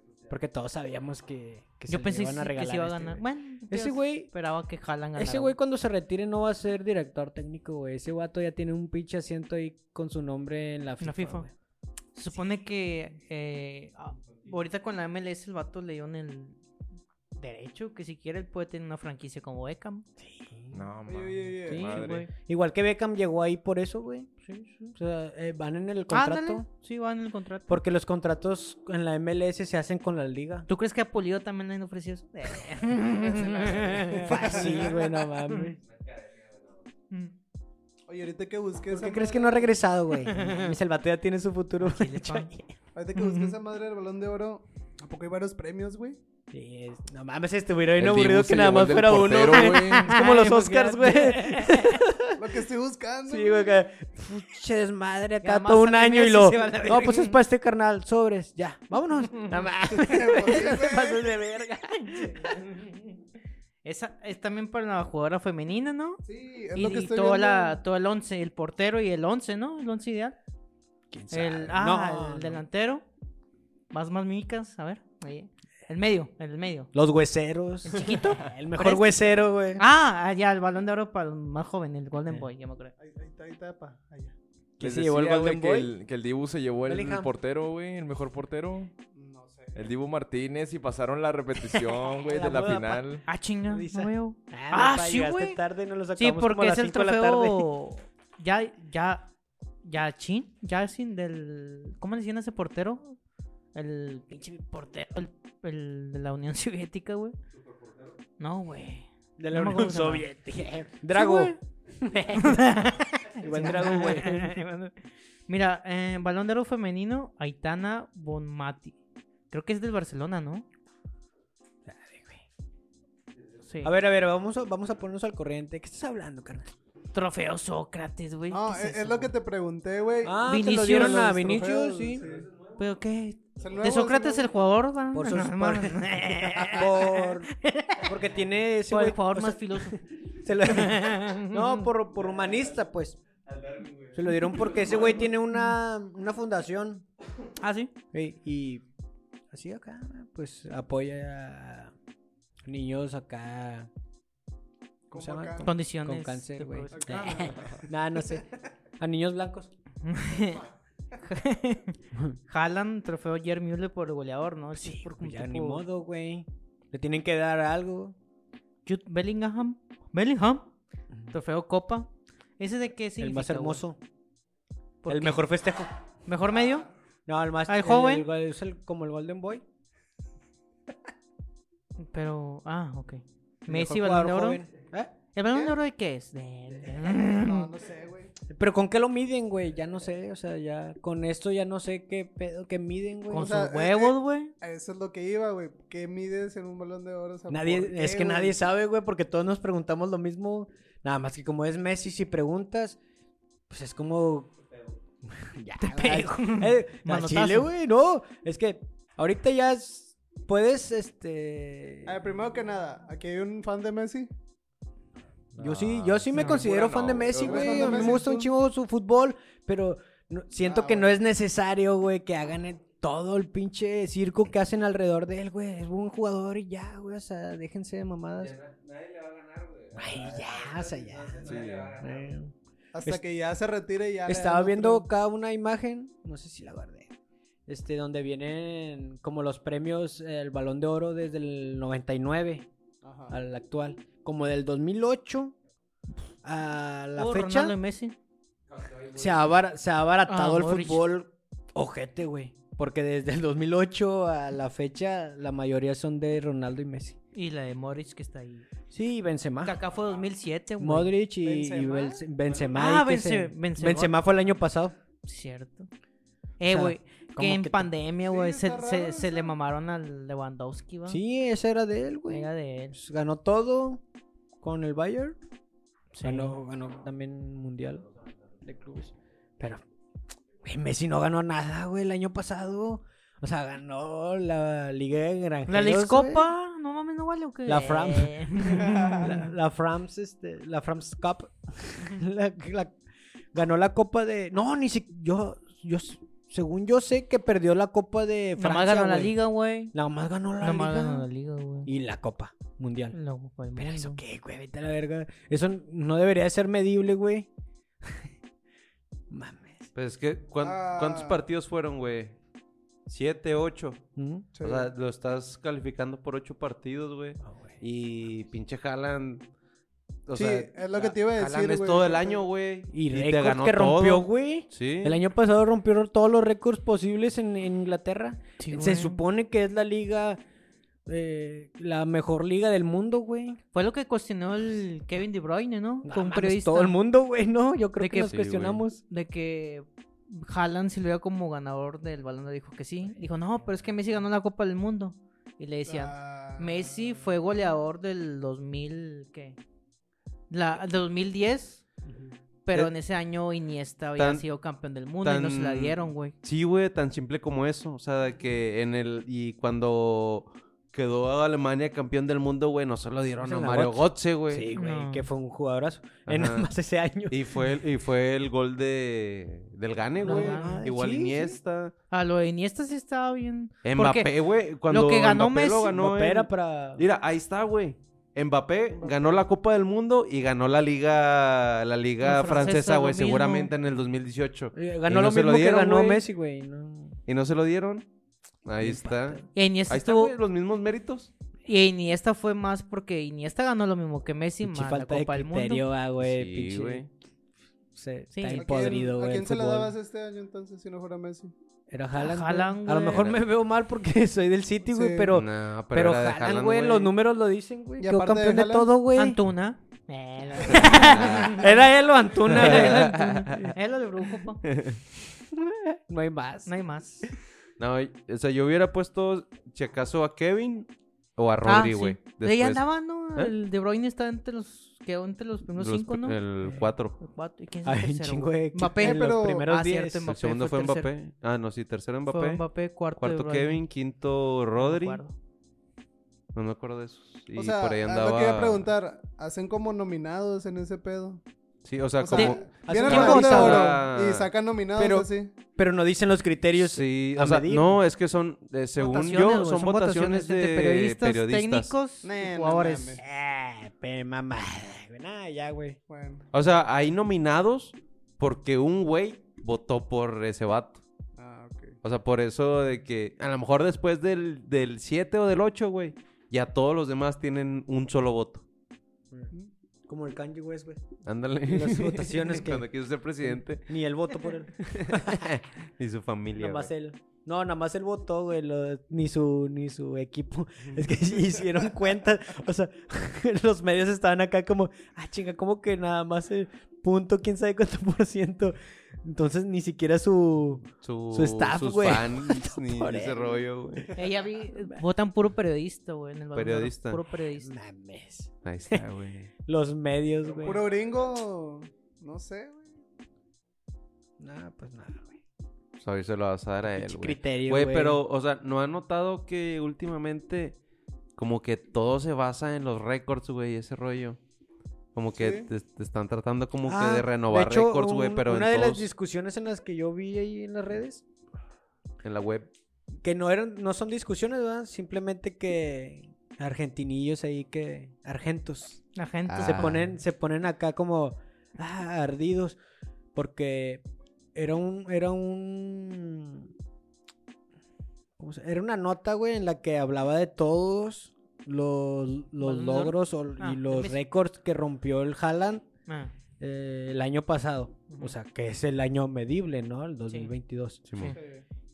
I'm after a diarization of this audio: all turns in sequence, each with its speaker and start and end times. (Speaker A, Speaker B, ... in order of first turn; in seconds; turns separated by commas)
Speaker A: 0.3-4.3, Speaker B: 1.9-5.6, Speaker A: 5.2-11.5, Speaker B: 11.0-11.5, Speaker B: 12.2-16.6, Speaker B: 17.4-20.1, Speaker A: 20.2-20.9, Speaker C: 20.7-22.3, Speaker D: 21.1-21.9, Speaker A: 21.6-24.3, Speaker B: 21.9-22.3, Speaker B: 24.4-24.9, Speaker A: 24.9-26.7, Speaker B: 26.1-27.8, Speaker A: 27.7-30.7, Speaker B: 30.7-35.8, Speaker D: 33.1-35.1, Speaker A: 33.7-35.8, Speaker D: 38.1-39.8, Speaker A: 38.9-42.7, Speaker B: 40.2-40.8, Speaker B: 41.8-42.6, Speaker D: 43.0-46.2, Speaker B: 43.1-43.5, Speaker A: 46.5-52.6, Speaker C: 48.0-50.2, Speaker B: 49.5-52.0, Speaker D: 52.4-53.8, Speaker A: 53.2-62.6, Speaker B: 55.4-57.4, Speaker D: 60.0-61.3, Speaker B: 62.1-63.2, Speaker B: 63.8-66.2, Speaker D: 66.2-67.8, Speaker B: 66.8-70.4, Speaker A: 71.1-72.6, Speaker B: 71.3-73.0, Speaker B: 73.9-76.9, Speaker A: 76.9-79.8, Speaker B: 77.9-79.2, Speaker B: 79.8-82.9, Speaker D: 83.0-84.4, Speaker A: 84.8-85.9, Speaker C: 84.8-88.9, Speaker A: 86.9-87.3, Speaker D: 89.1-89.9, Speaker C: 89.8-93.2, Speaker A: 92.1-97.7, Speaker B: 93.3-95.6, Speaker B: 96.2-99.3, Speaker B: 99.8-103.2, Speaker B: 103.8-107.4, Speaker B: 108.4-110.3, Speaker A: 109.4-114.6, Speaker B: 111.1-111.6, Speaker B: 112.3-119.0, Speaker B: 119.5-120.7, Speaker A: 121.9-122.4, Speaker B: 123.6-123.9, Speaker A: 123.8-126.7, Speaker B: 127.1-129.3, Speaker D: 128.5-132.5, Speaker A: 130.2-132.3, Speaker B: 130.4-131.4, Speaker B: 132.8-138.1, Speaker D: 133.6-134.5, Speaker A: 135.1-143.2, Speaker B: 138.9-140.0, Speaker B: 140.6-141.9, Speaker A: 144.1-147.1, Speaker B: 147.6-147.9, Speaker A: 148.1-148.8, Speaker A: 149.5-151.9, Speaker A: 152.7-153.9, Speaker D: 155.1-155.7, Speaker A: 155.1-158.5, Speaker B: 155.6-157.6, Speaker D: 156.9-157.9, Speaker A: 159.0-159.7, Speaker B: 160.0-160.7, Speaker B: 161.2-165.8, Speaker A: 162.1-162.4, Speaker A: 164.8-168.2, Speaker B: 168.9-170.7, Speaker B: 171.3-173.8, Speaker A: 173.2-174.0, Speaker B: 175.0-175.4, Speaker A: 175.1-175.9, Speaker B: 176.3-176.9, Speaker A: 177.3-179.6, Speaker B: 177.7-178.3, Speaker B: 182.1-184.6, Speaker A: 183.7-185.1, Speaker B: 185.3-187.7, Speaker D: 187.2-188.3, Speaker A: 188.5-193.7, Speaker B: 193.3-194.5, Speaker D: 193.4-198.6, Speaker A: 197.5-203.0, Speaker A: 203.7-204.5, Speaker A: 205.2-212.2, Speaker B: 205.8-207.7, Speaker D: 212.1-214.3, Speaker C: 215.5-218.1, Speaker A: 215.6-228.5, Speaker B: 216.3-216.7, Speaker D: 217.1-218.5, Speaker D: 220.6-221.1, Speaker E: 228.4-232.2, Speaker A: 229.9-233.2, Speaker C: 231.4-232.0, Speaker D: 232.9-235.1, Speaker A: 234.3-237.1, Speaker A: 237.7-242.7, Speaker D: 243.0-243.4, Speaker A: 243.3-245.6, Speaker A: 246.4-247.8, Speaker B: 247.2-248.2, Speaker A: 249.1-257.2, Speaker B: 250.3-251.1, Speaker B: 257.3-258.7, Speaker A: 258.9-259.8, Speaker B: 259.6-261.1, Speaker A: 260.8-264.9, Speaker D: 261.4-262.2, Speaker B: 262.7-264.2, Speaker B: 265.2-265.9, Speaker B: 266.6-271.2, Speaker A: 266.7-267.9, Speaker D: 268.2-269.6, Speaker A: 271.1-274.0, Speaker B: 272.3-273.0, Speaker A: 274.6-275.4, Speaker B: 276.1-276.6, Speaker A: 276.2-278.1, Speaker A: 278.6-279.8, Speaker A: 280.6-286.5, Speaker B: 285.7-289.5, Speaker A: 287.7-293.0, Speaker D: 288.7-289.3, Speaker A: 293.5-299.4, Speaker B: 298.6-299.9, Speaker A: 299.9-301.3, Speaker B: 300.6-301.9, Speaker A: 301.9-303.2, Speaker B: 303.1-304.2, Speaker A: 303.8-307.5, Speaker A: 308.0-308.3, Speaker A: 309.3-309.9, Speaker E: 309.9-312.4, Speaker D: 310.6-311.4, Speaker E: 313.1-314.0, Speaker A: 314.2-314.5, Speaker D: 314.6-314.9, Speaker E: 314.6-319.4, Speaker A: 317.4-317.8, Speaker E: 320.3-325.2, Speaker D: 320.4-322.4, Speaker A: 322.9-330.4, Speaker B: 328.6-329.2, Speaker A: 331.1-333.6, Speaker B: 333.7-337.0, Speaker A: 336.0-339.0, Speaker B: 338.0-338.4, Speaker E: 338.2-338.8, Speaker B: 339.1-349.6, Speaker D: 345.9-346.8, Speaker B: 350.5-351.8, Speaker A: 352.1-352.3, Speaker B: 352.7-356.4, Speaker E: 354.2-354.4, Speaker E: 355.2-364.7, Speaker A: 363.4-367.6, Speaker B: 364.8-365.3, Speaker E: 366.3-366.7, Speaker E: 367.3-371.9, Speaker A: 370.2-371.6, Speaker B: 370.2-370.8, Speaker B: 372.1-374.3, Speaker E: 373.8-386.2, Speaker B: 374.9-375.9, Speaker A: 375.9-377.1, Speaker D: 379.1-379.3, Speaker B: 382.2-383.7, Speaker A: 384.7-387.2, Speaker E: 387.3-388.1, Speaker E: 388.6-391.3, Speaker A: 388.8-389.5, Speaker B: 389.5-390.3, Speaker B: 391.7-395.8, Speaker A: 394.6-397.1, Speaker E: 396.2-397.1, Speaker A: 397.9-400.0, Speaker B: 398.3-398.7, Speaker D: 398.6-401.5, Speaker A: 401.9-409.4, Speaker B: 402.2-403.3, Speaker D: 404.9-405.3, Speaker E: 405.3-407.1, Speaker D: 408.0-408.9, Speaker B: 409.1-411.9, Speaker A: 410.7-413.8, Speaker E: 410.7-411.6, Speaker B: 412.4-414.6, Speaker E: 412.5-413.7, Speaker E: 414.7-415.0, Speaker A: 415.2-416.7, Speaker B: 416.7-417.3, Speaker E: 417.8-422.8, Speaker B: 421.6-426.4, Speaker E: 425.8-427.2, Speaker B: 427.2-431.1, Speaker A: 427.9-430.4, Speaker D: 429.0-429.7, Speaker E: 430.3-435.2, Speaker B: 432.3-433.8, Speaker B: 434.8-435.3, Speaker E: 436.6-438.9, Speaker D: 437.6-441.4, Speaker E: 441.9-444.5, Speaker D: 442.2-445.5, Speaker B: 442.4-443.8, Speaker A: 442.9-444.0, Speaker A: 445.0-448.0, Speaker E: 446.7-451.9, Speaker B: 449.0-453.2, Speaker D: 452.2-453.2, Speaker A: 453.2-456.0, Speaker D: 456.1-456.4, Speaker E: 456.5-461.0, Speaker D: 461.4-462.0, Speaker E: 462.0-468.6, Speaker A: 470.1-471.0, Speaker E: 471.3-473.9, Speaker A: 471.7-472.9, Speaker A: 473.4-475.5, Speaker E: 474.8-476.9, Speaker A: 476.6-494.2, Speaker E: 491.0-494.1, Speaker B: 494.1-497.7, Speaker A: 494.8-495.0, Speaker E: 496.5-497.2, Speaker A: 497.5-499.1, Speaker E: 498.6-499.5, Speaker A: 499.6-500.9, Speaker D: 500.6-502.9, Speaker A: 504.4-505.4, Speaker E: 506.0-510.8, Speaker A: 506.9-508.2, Speaker E: 511.4-514.4, Speaker E: 515.1-519.1, Speaker D: 515.4-515.7, Speaker A: 516.9-521.2, Speaker E: 522.2-522.7, Speaker A: 523.2-529.0, Speaker B: 529.2-529.9, Speaker E: 529.5-530.1, Speaker A: 529.6-532.8, Speaker A: 533.4-534.0, Speaker A: 534.5-536.7, Speaker A: 538.4-545.9, Speaker B: 542.6-544.2, Speaker B: 546.1-546.3, Speaker A: 546.6-551.1, Speaker B: 548.1-548.4, Speaker E: 551.1-551.4, Speaker D: 551.2-551.7